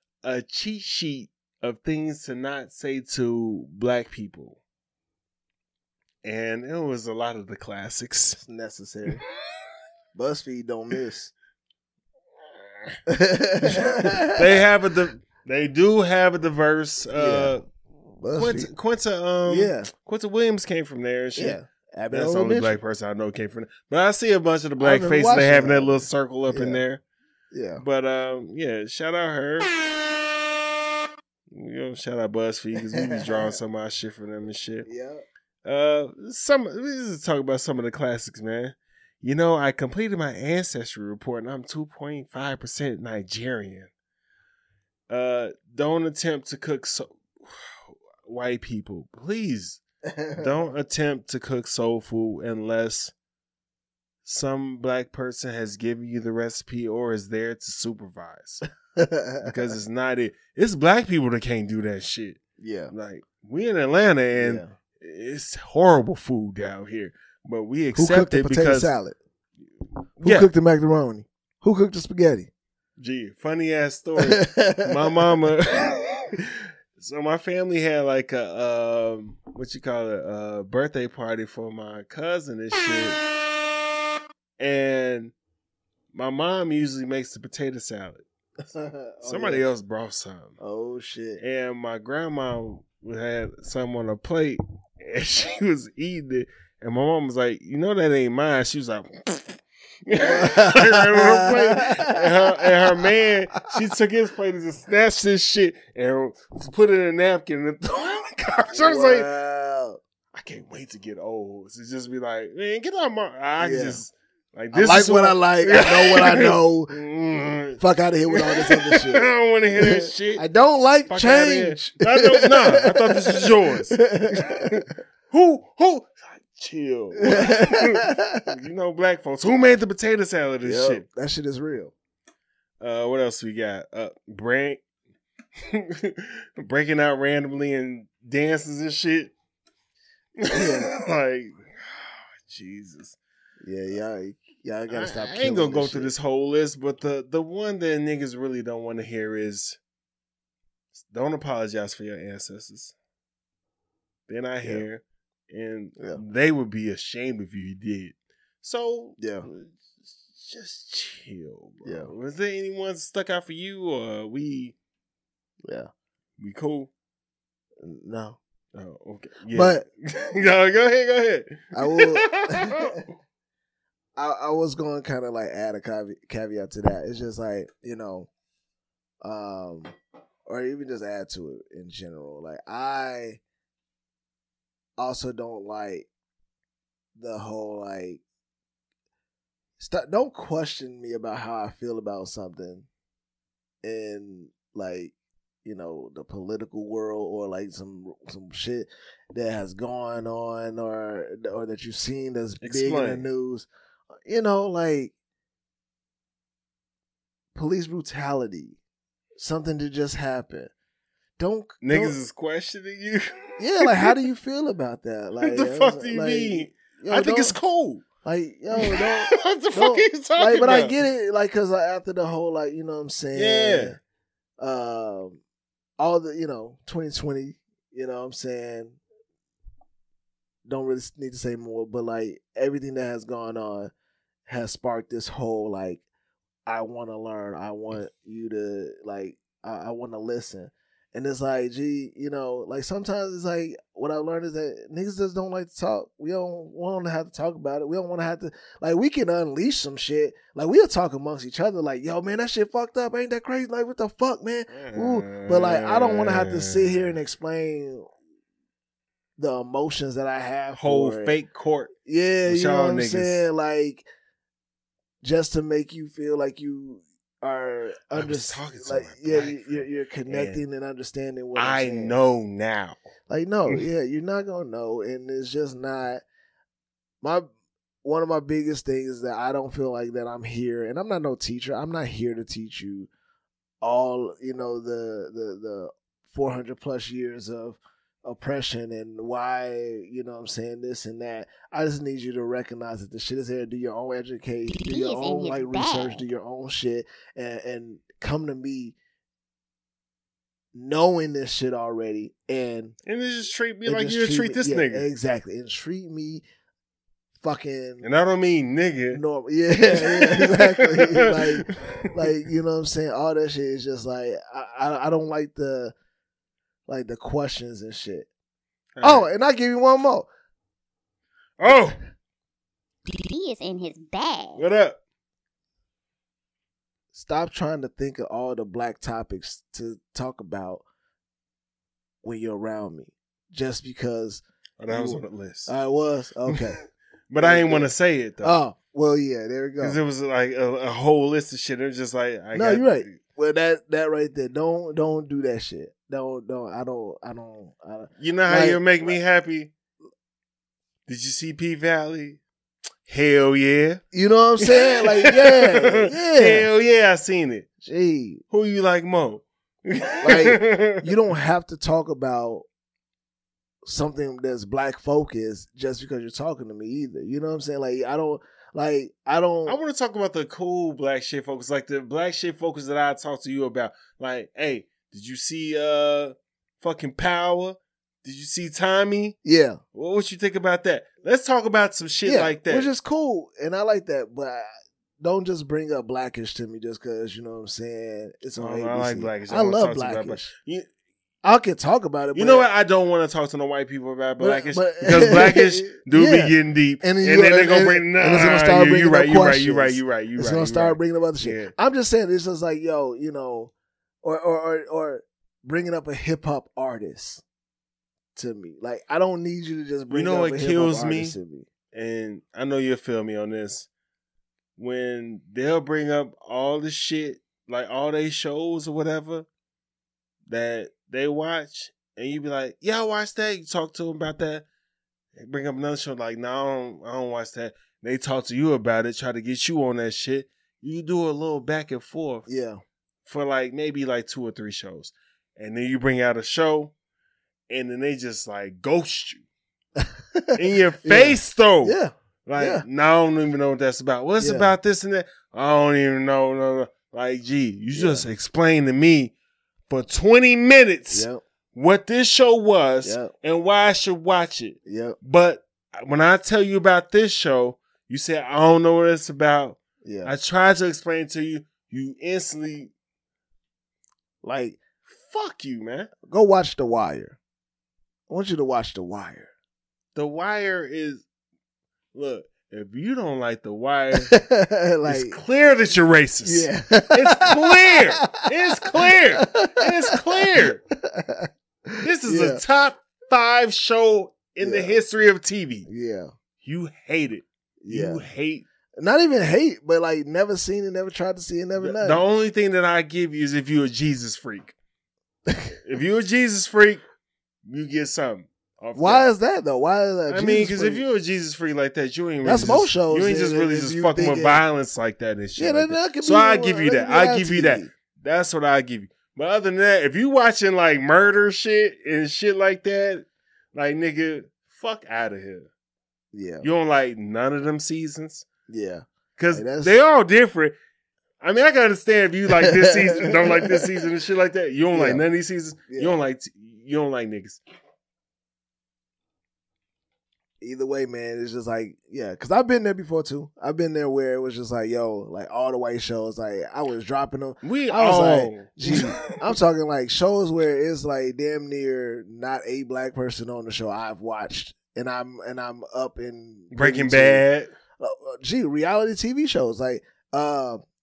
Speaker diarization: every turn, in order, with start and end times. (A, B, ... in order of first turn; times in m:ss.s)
0:00.2-0:04.6 A
0:06.2-0:08.4 A
0:08.4-0:09.2 B
0:10.1-0:11.3 B
0:13.1-0:14.5 B
0:13.6-0:17.6 A
0:17.1-0:17.5 B
0:18.2-0:18.7 B
0:18.3-0:21.6 A
0:19.4-0:19.9 B
0:21.4-0:22.8 B
0:22.1-0:27.0 A
0:24.8-0:26.8 B
0:27.5-0:27.8 B
0:27.8-0:29.7 A
0:31.5-0:34.9 A
0:32.9-0:33.5 B
0:34.8-0:35.2 B
0:35.6-0:43.9 A
0:45.1-0:49.8 A
0:50.0-0:50.4 B
0:50.3-0:53.1 A
0:54.2-0:58.6 A
0:58.9-0:59.5 B
0:59.4-1:08.9 A
1:02.6-1:02.9 B
1:04.4-1:04.7 B
1:07.9-1:09.2 B
1:10.2-1:10.5 A
1:10.2-1:12.5 B
1:13.0-1:23.2 A
1:14.2-1:15.0 B
1:24.6-1:25.3 A
1:26.1-1:28.2 A
1:28.7-1:29.6 B
1:29.2-1:30.6 A
1:30.6-1:31.4 B
1:31.4-1:49.3 A
1:40.2-1:42.6 B
1:48.7-1:50.0 B
1:50.3-2:00.4 A
1:53.6-1:54.0 B
1:54.7-1:57.0 B
1:57.8-2:04.8 B
2:01.1-2:11.0 A
2:07.2-2:08.5 B
2:10.6-2:11.9 B
2:12.8-2:14.8 A
2:15.7-2:19.3 A
2:20.4-2:23.2 A
2:20.5-2:20.9 B
2:23.6-2:26.1 B
2:24.9-2:29.8 A
2:30.9-2:32.9 A
2:34.3-2:44.7 A
2:39.2-2:39.5 B
2:41.8-2:42.1 B
2:45.6-2:45.9 B
2:46.4-2:46.9 A
2:47.8-2:48.4 B
2:48.7-2:53.0 A
2:49.5-2:49.8 B
2:51.7-2:53.0 B
2:54.2-2:58.3 B
2:59.2-3:03.4 B
3:05.0-3:06.1 B
3:07.2-3:08.2 B
3:09.8-3:12.9 B
3:13.8-3:15.1 B
3:15.6-3:23.7 B
3:22.6-3:23.3 A
3:24.2-3:25.1 B
3:27.5-3:28.8 B
3:29.4-3:30.7 B
3:31.4-3:32.1 B
3:31.8-3:34.2 A
3:33.6-3:37.5 B
3:35.4-3:38.0 A
3:38.2-3:44.0 B
3:38.7-3:40.9 A
3:43.3-3:44.0 A
3:44.6-3:45.4 B
3:46.0-3:49.0 B
3:50.6-3:53.9 B
3:54.5-3:56.0 B
3:56.6-4:18.1 B
4:14.7-4:17.1 A
4:19.4-4:21.3 B
4:20.7-4:21.9 A
4:22.0-4:24.0 B
4:22.4-4:23.4 A
4:25.2-4:32.1 B
4:28.1-4:30.6 A
4:31.5-4:33.0 A
4:33.3-4:36.2 B
4:38.0-4:43.1 B
4:43.8-4:58.9 B
4:54.7-4:56.2 C
5:00.7-5:03.0 B
5:03.0-5:05.0 A
5:03.8-5:06.4 B
5:07.4-5:08.0 B
5:08.0-5:09.2 A
5:09.1-5:15.9 B
5:09.9-5:12.3 A
5:16.9-5:18.3 B
5:19.0-5:19.3 A
5:19.0-5:20.3 B
5:21.6-5:22.0 A
5:23.1-5:24.6 C
5:24.6-5:25.0 A
5:27.1-5:30.8 B
5:32.2-5:36.8 B
5:34.8-5:35.7 A
5:37.3-5:38.6 A
5:37.4-5:37.9 B
5:38.4-5:40.0 B
5:39.8-5:43.2 A
5:42.5-5:49.1 B
5:48.2-5:49.7 A
5:51.1-5:52.4 A
5:53.0-5:54.0 A
5:54.1-5:56.7 B
5:54.6-5:57.7 A
5:57.8-5:58.4 B
5:58.5-6:01.1 A
6:00.2-6:02.6 B
6:03.8-6:09.8 B
6:09.6-6:19.4 A
6:19.4-6:19.8 B
6:19.9-6:22.9 A
6:22.2-6:24.7 B
6:25.2-6:30.5 B
6:28.6-6:30.9 A
6:31.4-6:32.7 B
6:32.3-6:41.7 A
6:34.4-6:43.7 B
6:44.2-6:47.4 B
6:48.4-6:51.7 B
6:50.1-6:51.4 A
6:51.9-6:53.9 A
6:54.8-6:59.5 A
7:00.5-7:04.6 A
7:05.3-7:12.5 A
7:12.5-7:12.8 B
7:13.2-7:16.9 A
7:17.7-7:19.4 A
7:20.0-7:22.8 B
7:20.5-7:29.3 A
7:24.4-7:24.7 B
7:27.9-7:28.2 B
7:29.9-7:42.9 A
7:31.1-7:31.4 B
7:33.0-7:33.3 B
7:34.8-7:35.2 B
7:40.0-7:40.3 B
7:44.4-7:44.8 B
7:45.1-7:46.1 A
7:46.2-7:47.4 B
7:48.3-7:49.5 B
7:50.1-7:51.2 A
7:52.1-7:54.4 A
7:54.3-7:55.4 B
7:55.0-8:00.8 A
7:56.4-8:02.6 B
8:02.0-8:05.9 A
8:04.6-8:04.9 B
8:05.9-8:06.3 B
8:06.6-8:08.6 A
8:07.8-8:08.2 B
8:09.0-8:12.2 B
8:11.8-8:14.7 A
8:15.5-8:15.8 B
8:15.8-8:17.0 A
8:17.6-8:19.2 A
8:19.0-8:21.0 B
8:20.3-8:35.7 A
8:22.4-8:24.6 B
8:25.6-8:27.9 B
8:36.3-8:36.6 B
8:36.6-8:38.5 A
8:38.7-8:39.9 B
8:39.4-8:40.8 A
8:41.4-8:47.6 A
8:42.6-8:43.9 B
8:44.9-8:45.2 B
8:45.9-8:46.2 B
8:50.6-9:07.4 B
8:57.6-8:59.3 A
9:06.7-9:07.7 A
9:08.0-9:10.8 B